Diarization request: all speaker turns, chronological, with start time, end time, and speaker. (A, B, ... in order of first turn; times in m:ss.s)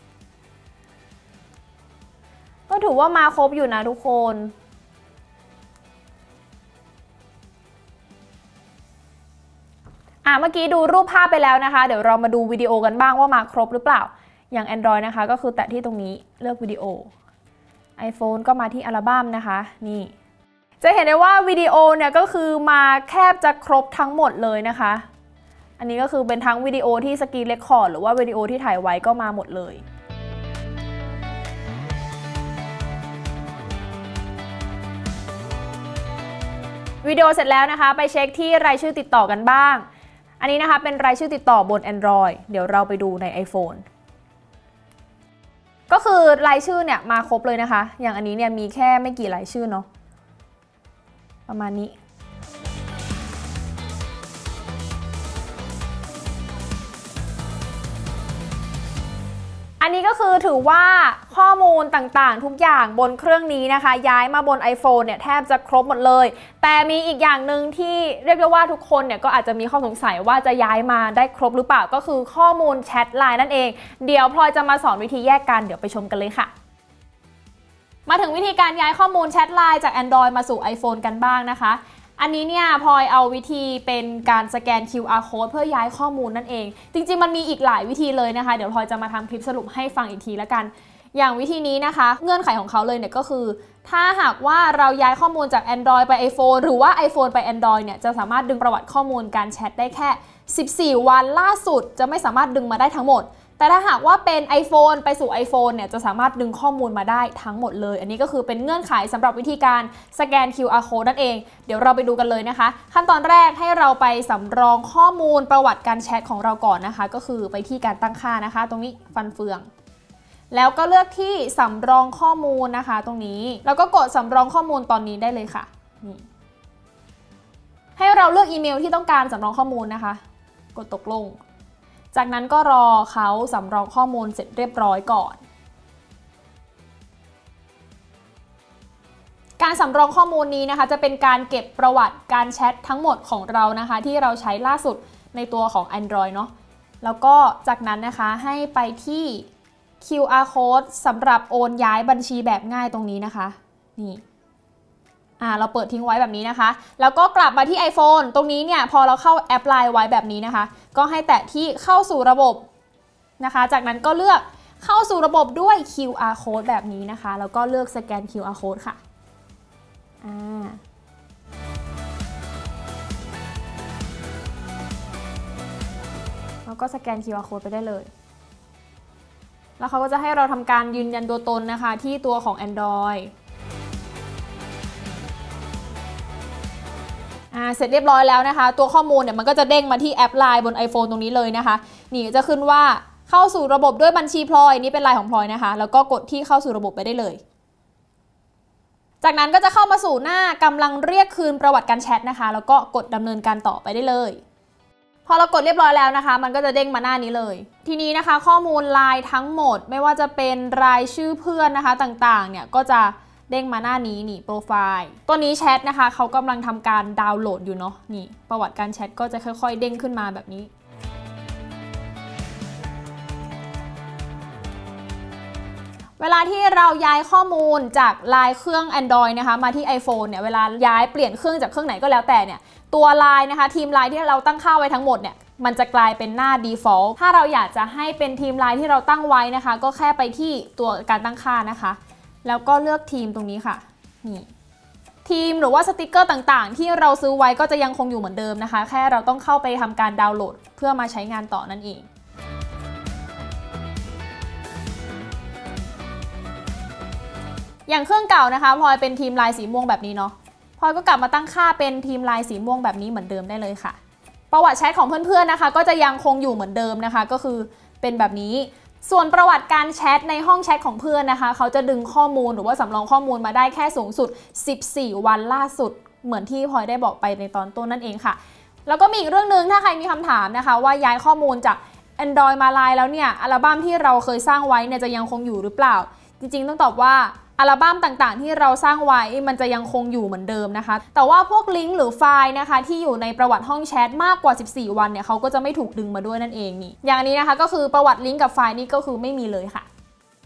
0:02.7-0:04.5 A
0:10.2-0:17.1 A
0:18.0-0:20.1 A
0:20.8-0:25.1 A
0:25.8-0:29.8 A
0:37.0-0:39.8 A
0:40.4-0:43.8 A
0:45.9-0:49.9 A
0:51.5-0:52.0 A
0:59.8-1:16.5 A
1:18.1-1:59.7 A
2:00.5-2:06.2 A
2:08.0-2:10.2 A
2:10.7-2:11.4 A
2:12.1-2:15.4 A
2:19.6-2:29.5 A
2:30.0-2:34.2 A
2:35.4-2:42.7 A
2:43.4-2:49.0 A
2:50.2-2:50.8 A
2:56.6-2:58.1 A
2:59.8-3:03.3 A
3:07.5-3:17.4 A
3:19.2-3:24.4 A
3:25.3-3:40.7 A
3:46.2-4:04.5 A
4:05.2-4:12.1 A
4:17.9-4:24.0 A
4:24.5-4:59.9 A